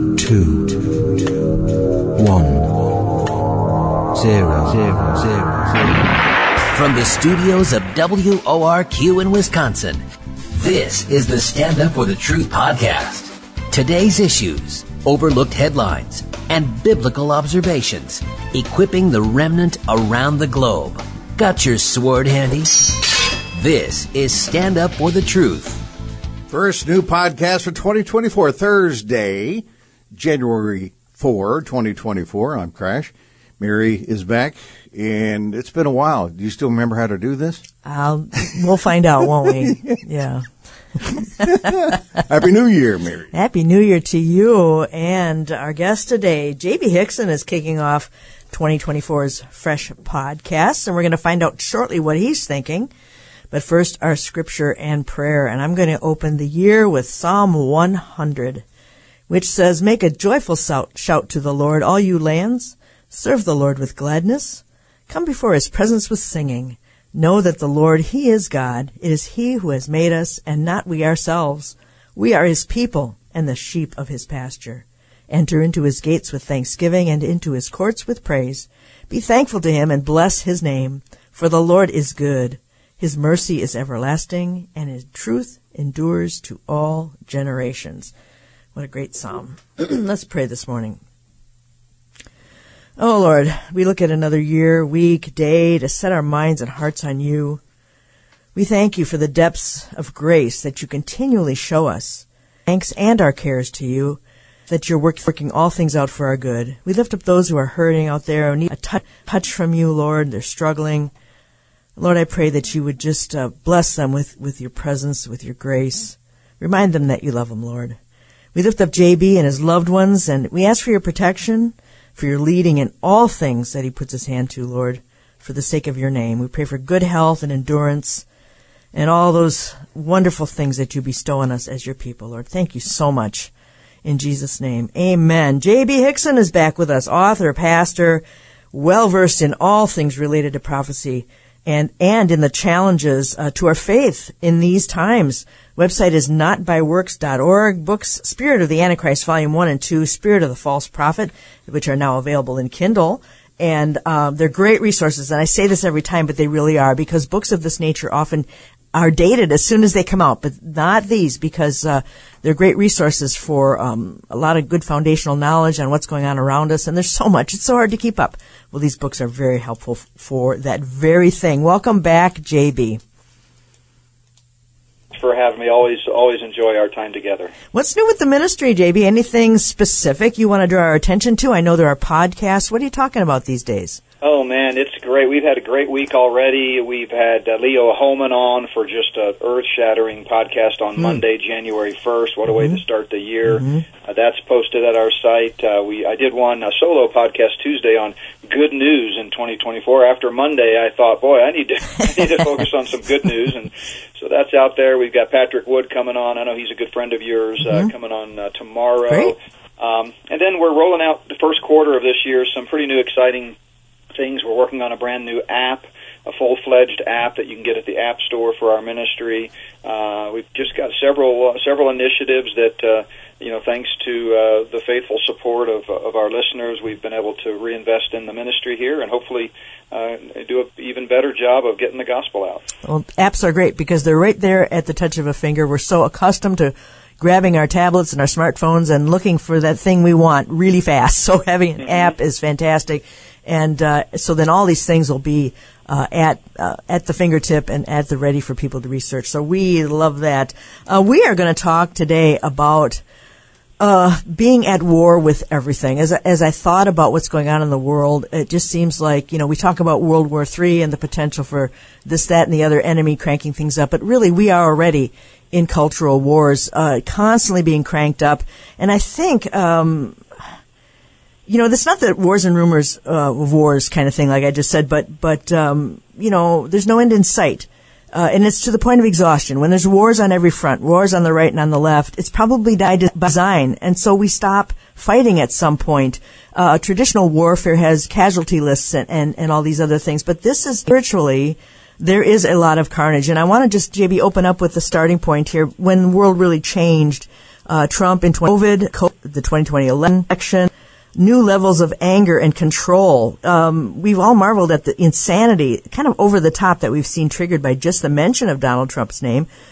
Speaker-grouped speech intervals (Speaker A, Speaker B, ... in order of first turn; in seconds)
Speaker A: 0.2-1.5, 2.2-2.7, 4.1-6.0
Speaker B: 6.7-10.0, 10.6-25.8
Speaker C: 26.5-37.6, 41.4-43.3
Speaker D: 37.9-40.5, 41.4-41.9, 43.3-52.9, 53.5-58.6, 59.3-88.1, 88.8-91.0, 93.0-97.6, 98.5-111.1, 112.0-118.0, 118.5-128.2, 128.9-133.5, 134.1-173.0, 177.7-184.0, 209.1-209.3, 232.8-253.0, 253.8-270.2, 271.5-309.5
Speaker E: 175.1-177.5, 184.2-213.6, 214.1-232.7, 241.8-242.1